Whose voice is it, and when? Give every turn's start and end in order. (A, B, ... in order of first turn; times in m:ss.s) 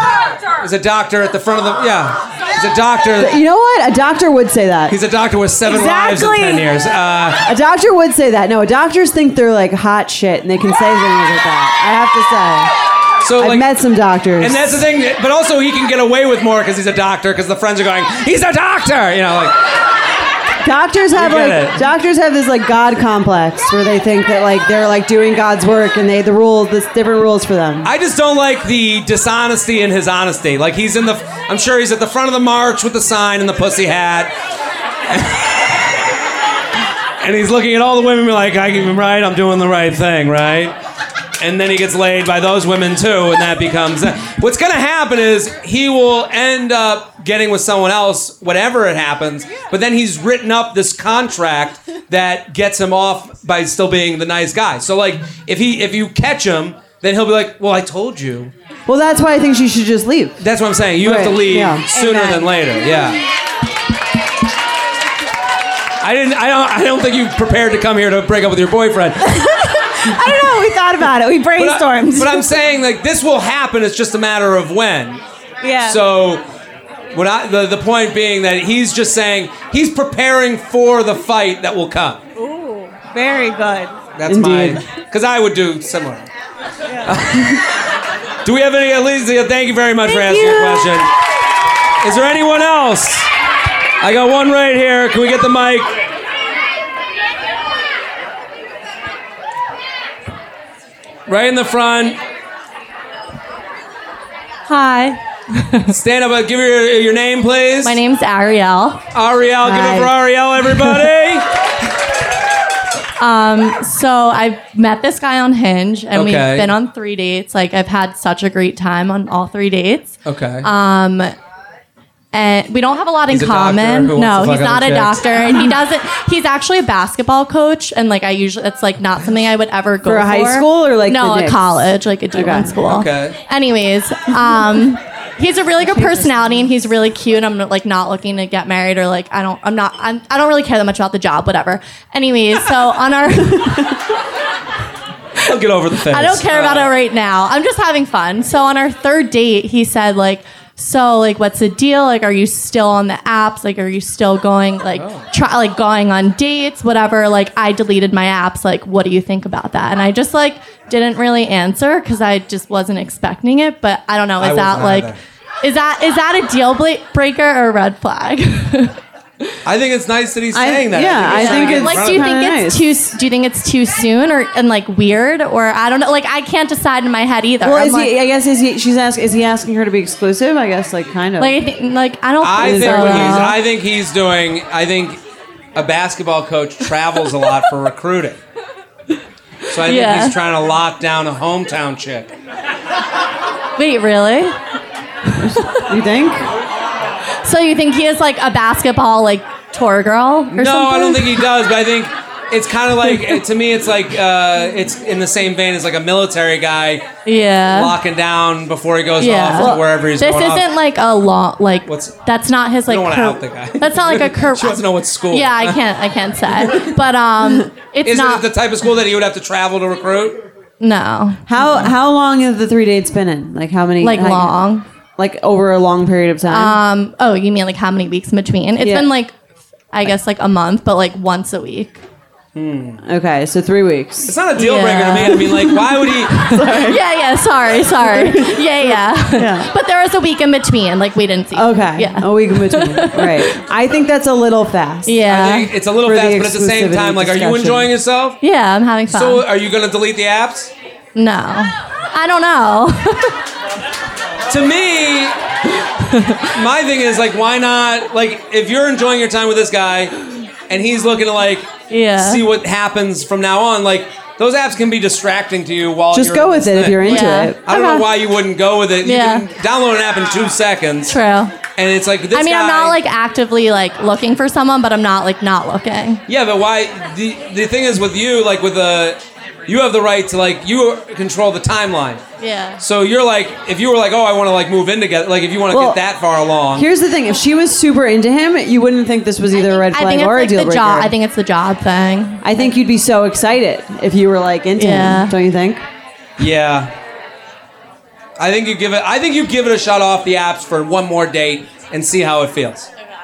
0:00.6-0:03.4 A
0:03.2-0:05.0 B
0:04.9-0:07.4 A
0:05.7-0:06.7 C
0:07.4-0:12.7 B
0:13.2-0:13.7 A
0:13.4-0:14.8 B
0:14.4-0:19.6 A
0:20.6-0:27.9 B
0:21.1-0:21.9 A
0:27.8-0:34.3 A
0:35.1-0:35.8 A
0:37.2-0:40.8 A
0:41.4-0:58.5 A
0:58.9-1:00.4 B
1:00.4-1:03.2 A
1:01.0-1:02.3 B
1:06.0-1:09.4 A
1:09.2-1:12.5 C
1:11.6-1:15.2 A
1:15.6-1:16.0 C
1:15.8-1:16.4 A
1:17.1-1:22.2 A
1:22.4-1:24.0 C
1:24.2-1:26.3 A
1:24.3-1:24.8 B
1:27.0-1:27.6 A
1:28.4-1:31.1 A
1:30.1-1:31.1 C
1:32.0-1:33.3 A
1:34.0-1:36.0 A
1:41.3-1:42.2 A
1:44.7-1:45.9 D
1:45.9-1:48.0 A
1:47.8-1:49.0 D
1:49.1-1:51.5 A
1:49.6-1:50.2 B
1:53.2-2:01.4 D
1:56.1-1:56.7 A
2:00.3-2:00.7 A
2:02.3-2:24.0 D
2:03.3-2:05.5 A
2:10.0-2:12.8 B
2:12.8-2:13.4 A
2:15.8-2:16.7 B
2:25.4-2:26.9 A
2:26.1-2:49.0 D
2:35.0-2:35.3 A
2:44.4-2:45.2 A
2:49.6-2:52.3 A
2:50.5-2:52.9 B
2:51.3-2:58.1 D
2:57.6-3:01.6 B
3:01.4-3:03.6 D
3:02.4-3:05.2 A
3:02.6-3:03.6 B
3:05.8-3:08.4 A
3:09.7-3:12.3 A
3:09.8-3:10.4 D
3:13.8-3:14.6 D
3:15.4-3:16.5 B
3:17.4-3:21.4 D
3:20.5-3:27.1 A
3:27.2-3:27.9 D
3:27.6-3:30.7 A
3:29.2-3:38.5 D
3:31.9-3:32.2 A
3:32.9-3:35.8 A
3:36.6-3:36.9 A
3:38.0-3:40.4 A
3:40.8-3:41.9 D
3:41.5-3:44.6 B
3:44.0-3:44.9 D
3:45.2-3:46.8 B
3:46.5-3:49.4 D
3:48.8-3:49.1 B
3:49.9-3:52.0 D
3:52.6-3:53.0 A
3:53.0-3:54.4 B
3:54.3-3:56.4 A
3:54.6-4:03.6 D
3:56.4-3:57.0 B
3:58.0-3:59.7 B
4:01.5-4:05.2 B
4:05.1-4:05.7 D
4:05.2-4:08.4 A
4:06.0-4:07.9 B
4:08.4-4:09.4 D
4:09.1-4:10.7 A
4:11.2-4:13.4 D
4:14.5-4:15.4 A
4:16.1-4:16.4 D
4:16.5-4:20.1 A
4:20.7-4:31.2 A
4:21.9-4:22.4 D
4:26.1-4:27.6 B
4:27.0-4:28.1 D
4:29.0-4:29.5 D
4:31.1-4:31.6 D
4:31.8-4:33.0 A
4:32.3-4:36.2 D
4:36.3-4:42.2 A
4:42.4-4:42.8 D
4:42.8-4:46.9 A
4:45.7-4:46.0 B
4:46.8-4:51.1 B
4:49.5-4:52.6 D
4:52.4-4:55.8 B
4:54.8-4:55.4 D
4:56.4-4:56.9 A
4:58.4-5:02.9 A